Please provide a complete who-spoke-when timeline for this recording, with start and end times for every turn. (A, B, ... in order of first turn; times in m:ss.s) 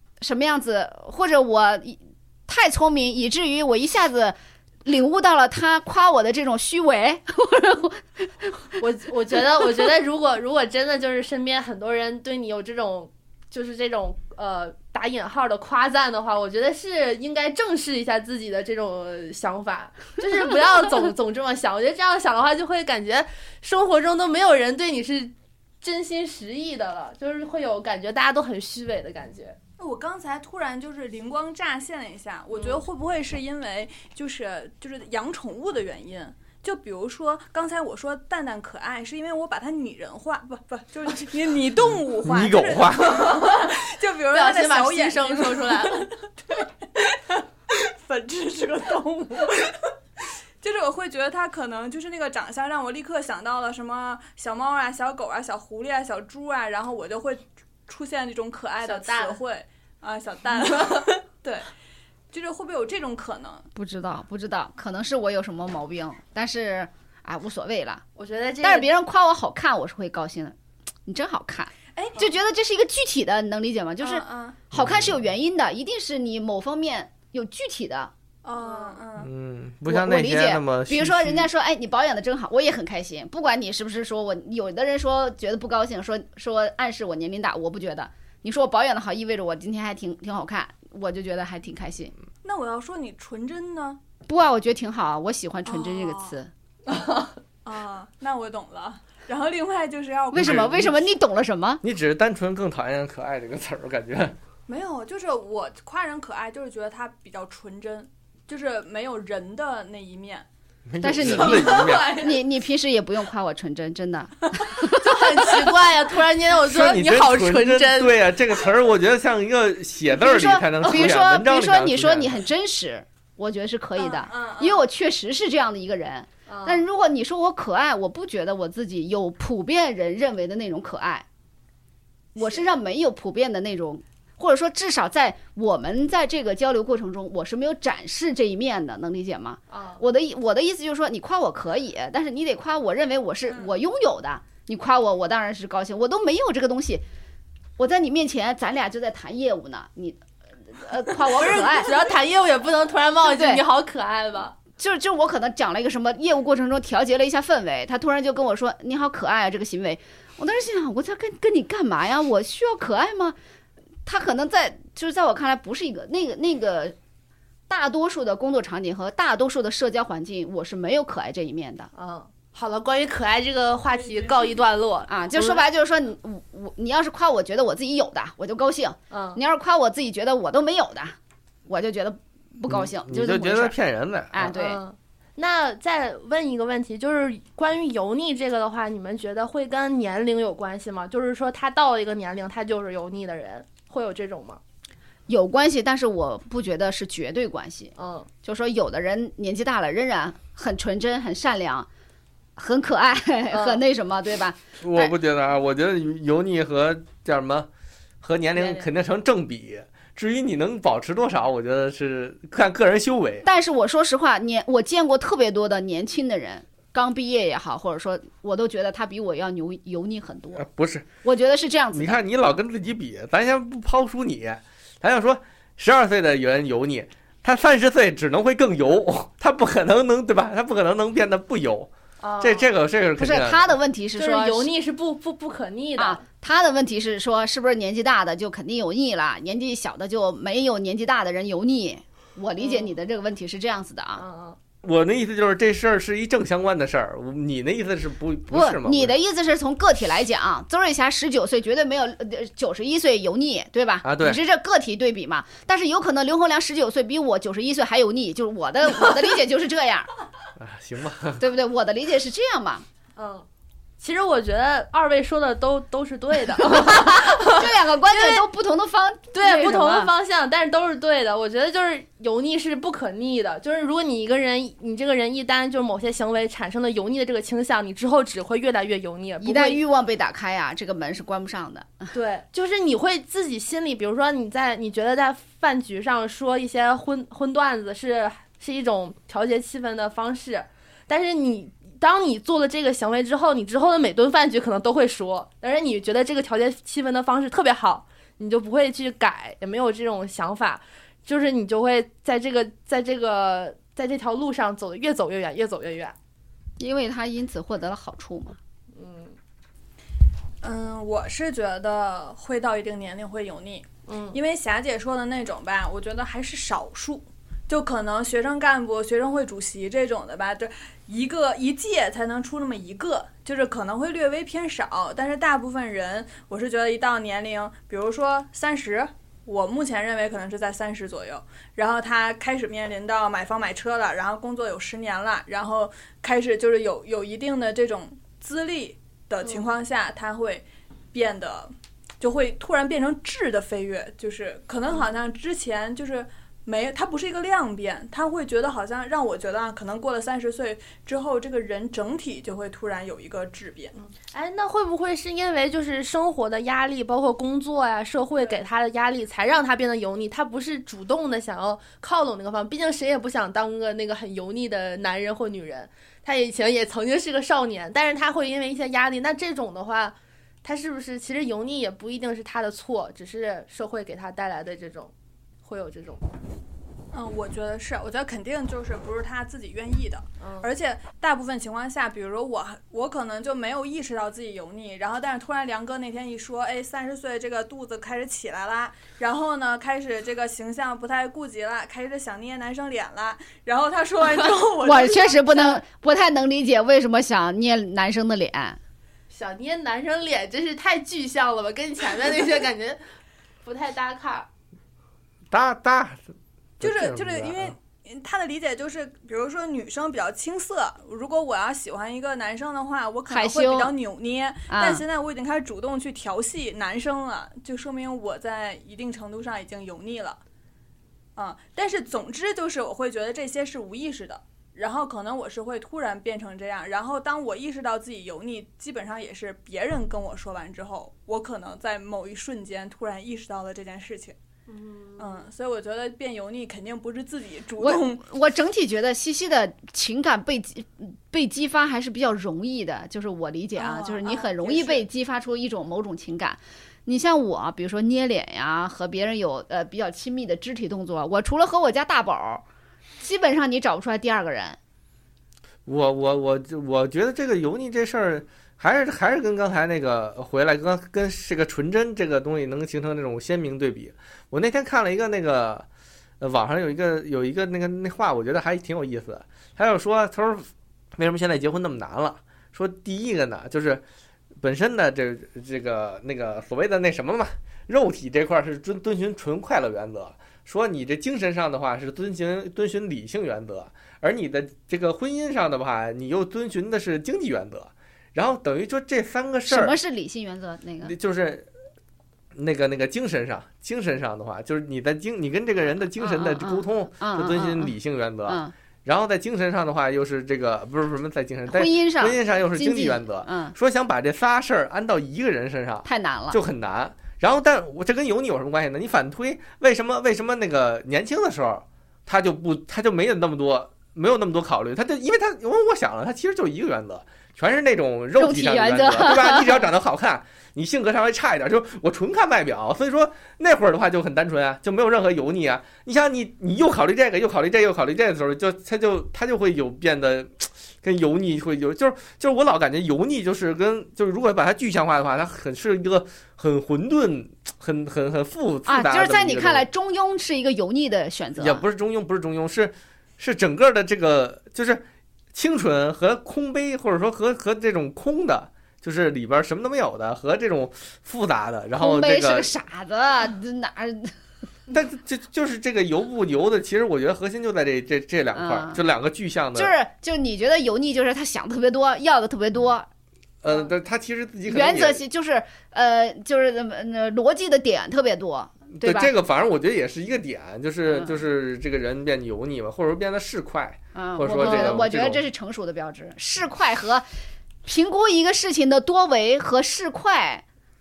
0:00.2-0:08.7 A
0:08.8-0:29.6 B
0:29.8-0:49.9 C
0:32.5-0:32.8 B
0:41.9-0:43.2 D
0:43.1-0:43.7 B
0:44.3-0:46.1 B
0:50.6-1:01.7 C
0:58.8-0:59.4 B
1:00.6-1:01.1 B
1:02.3-1:03.6 C
1:03.8-1:08.0 A
1:08.2-1:08.9 B
1:08.6-1:18.1 A
1:12.0-1:12.3 C
1:14.0-1:14.6 C
1:14.7-1:15.2 D
1:18.4-1:19.3 C
1:18.6-1:19.0 B
1:19.2-1:21.5 D
1:19.9-1:32.1 A
1:32.4-1:34.0 C
1:34.3-1:36.5 A
1:35.7-1:36.4 C
1:36.9-1:37.3 B
1:37.6-1:41.0 C
1:40.3-1:41.8 A
1:40.3-1:40.9 D
1:41.8-1:44.4 D
1:44.7-1:50.5 C
1:50.9-1:52.2 D
1:51.0-1:55.6 A
1:51.2-1:52.4 C
1:51.4-1:52.2 B
1:54.8-1:58.2 B
1:56.6-2:02.4 D
2:00.1-2:11.3 A
2:04.0-2:04.8 C
2:06.5-2:06.8 B
2:12.4-2:27.0 A
2:19.7-2:20.0 B
2:27.8-2:32.0 A
2:31.3-2:34.6 B
2:33.3-2:33.6 A
2:34.8-2:43.4 A
2:44.1-2:47.0 A
2:47.7-2:51.9 A
2:52.0-2:55.6 B
2:55.1-3:03.8 A
2:59.1-2:59.4 B
3:02.7-3:04.6 D
3:04.3-3:04.8 A
3:04.5-3:14.6 B
3:15.3-3:21.9 A
3:18.0-3:18.3 B
3:22.6-3:25.1 A
3:23.5-3:23.8 B
3:24.8-3:27.7 D
3:28.2-3:33.4 D
3:28.6-3:28.9 B
3:33.4-3:40.7 A
3:40.6-3:41.1 D
3:41.2-3:42.2 A
3:41.9-3:53.7 D
3:52.2-3:52.7 B
3:53.2-3:54.7 A
3:54.2-3:56.2 B
3:56.0-4:04.2 A
4:02.6-4:02.9 B
4:04.2-4:04.6 B
4:04.8-4:09.2 D
4:08.5-4:20.1 A
4:14.0-4:14.4 D
4:20.6-4:21.4 D
4:21.4-4:22.8 A
4:23.2-4:23.5 B
4:24.0-4:28.4 B
4:26.7-4:30.1 A
4:29.3-4:39.8 B
4:39.4-4:42.1 A
4:42.1-5:06.2 B
5:06.8-5:08.6 A
5:08.9-5:09.4 B
5:10.6-5:54.0 C
5:14.1-5:14.4 B
5:54.0-6:16.3 B
6:17.1-6:35.8 C
6:20.4-6:20.7 B
6:34.8-6:38.8 A
6:39.3-6:43.0 B
6:43.6-6:44.5 B
6:45.5-6:46.2 D
6:46.8-6:47.8 D
6:46.8-7:00.4 C
6:53.3-6:53.9 A
6:54.7-6:55.0 A
7:01.4-7:14.4 C
7:14.7-7:15.4 B
7:15.2-7:18.3 C
7:17.8-7:32.6 A
7:23.8-7:25.0 C
7:33.2-7:34.8 A
7:35.9-7:45.9 D
7:46.4-7:54.0 D
7:54.6-8:10.0 D
8:09.7-8:11.2 A
8:11.0-8:11.7 D
8:12.6-8:59.8 D
8:16.2-8:17.9 A
8:18.5-8:18.7 A
8:21.7-8:23.8 A
8:26.0-8:26.6 A
8:38.4-8:39.9 A
8:58.9-9:01.8 A
9:01.6-9:12.7 D
9:12.0-9:14.4 A
9:14.9-9:20.0 D
9:18.5-9:19.0 A
9:19.8-9:23.1 A
9:23.6-9:25.2 D
9:24.7-9:29.3 A
9:29.0-9:35.4 D
9:31.1-9:31.4 A
9:34.2-9:37.3 A
9:34.6-9:35.0 B
9:37.8-9:40.6 A